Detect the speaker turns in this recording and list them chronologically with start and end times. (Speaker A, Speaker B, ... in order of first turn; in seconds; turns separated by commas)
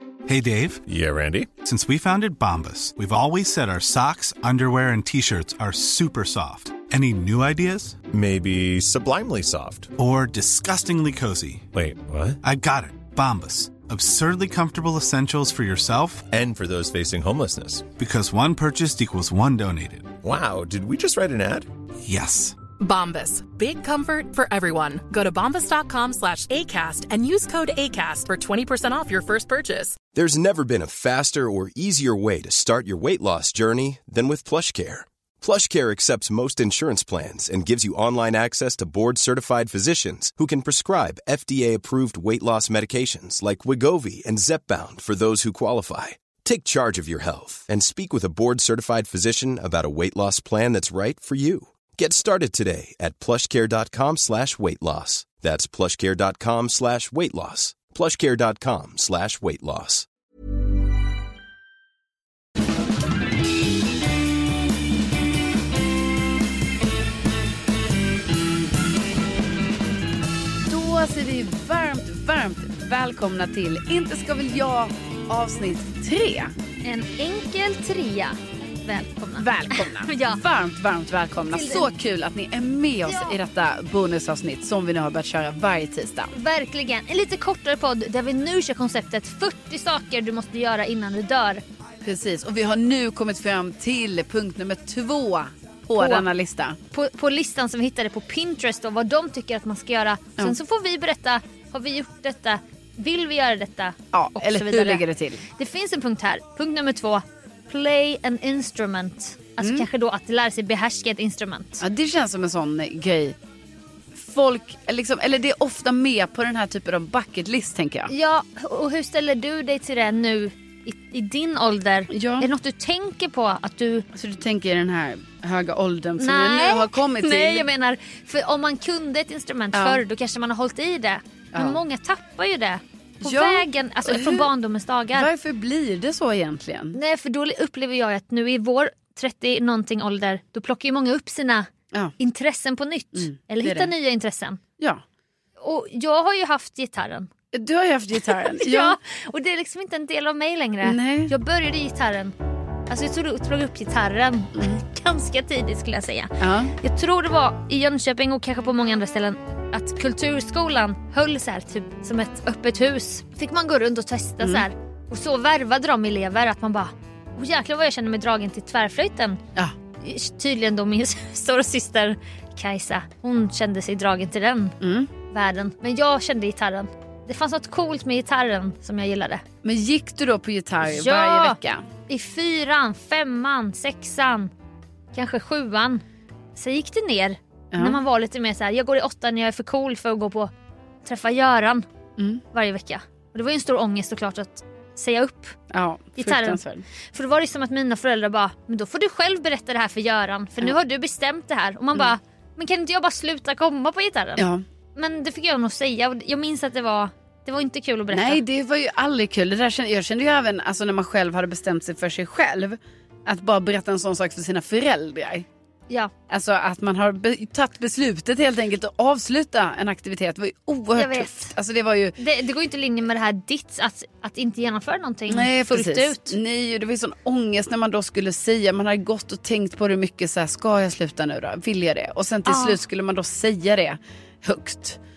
Speaker A: 0.3-0.8, Speaker B: 0.8-1.6, Speaker A: 1.6-8.0, Speaker B: 8.1-9.9, Speaker A: 10.0-11.7, Speaker B: 11.7-12.4, Speaker A: 12.4-16.3, Speaker B: 16.3-17.9, Speaker A: 18.0-20.1, Speaker B: 20.2-21.7, Speaker A: 22.0-22.6, Speaker C: 22.8-30.0, Speaker D: 30.1-60.1, Speaker E: 70.7-76.5, Speaker F: 76.8-80.4, Speaker E: 79.4-86.3, Speaker F: 81.5-81.9, Speaker F: 83.0-83.4, Speaker F: 86.3-91.6, Speaker E: 92.0-96.8, Speaker F: 96.0-96.3, Speaker F: 96.9-111.8, Speaker E: 104.1-105.4, Speaker E: 109.6-109.9, Speaker E: 111.8-113.4, Speaker E: 114.1-118.1, Speaker F: 118.1-124.1, Speaker E: 122.1-122.5, Speaker E: 124.1-127.7, Speaker F: 126.2-135.3, Speaker E: 129.7-130.0, Speaker E: 131.5-131.8, Speaker E: 133.2-134.5, Speaker E: 135.1-137.0, Speaker F: 136.9-144.6, Speaker E: 143.1-143.9, Speaker F: 145.6-147.3, Speaker E: 147.5-149.0, Speaker F: 148.3-152.3, Speaker E: 150.8-151.3, Speaker F: 152.9-169.4, Speaker E: 154.6-154.8, Speaker E: 156.4-156.8, Speaker E: 164.4-164.7, Speaker F: 170.0-174.8, Speaker E: 174.8-175.1, Speaker F: 175.3-179.4, Speaker E: 179.6-181.8, Speaker F: 180.8-181.6, Speaker F: 182.1-184.5, Speaker F: 185.1-186.0, Speaker F: 186.6-190.5, Speaker E: 187.7-188.0, Speaker F: 191.0-191.8, Speaker E: 192.2-192.4, Speaker F: 192.5-195.6, Speaker E: 195.7-196.8, Speaker F: 196.2-208.4, Speaker E: 204.4-204.6, Speaker E: 208.1-215.5, Speaker E: 216.3-222.2, Speaker F: 220.9-221.6, Speaker F: 222.2-226.4, Speaker E: 225.3-235.0, Speaker F: 232.5-232.8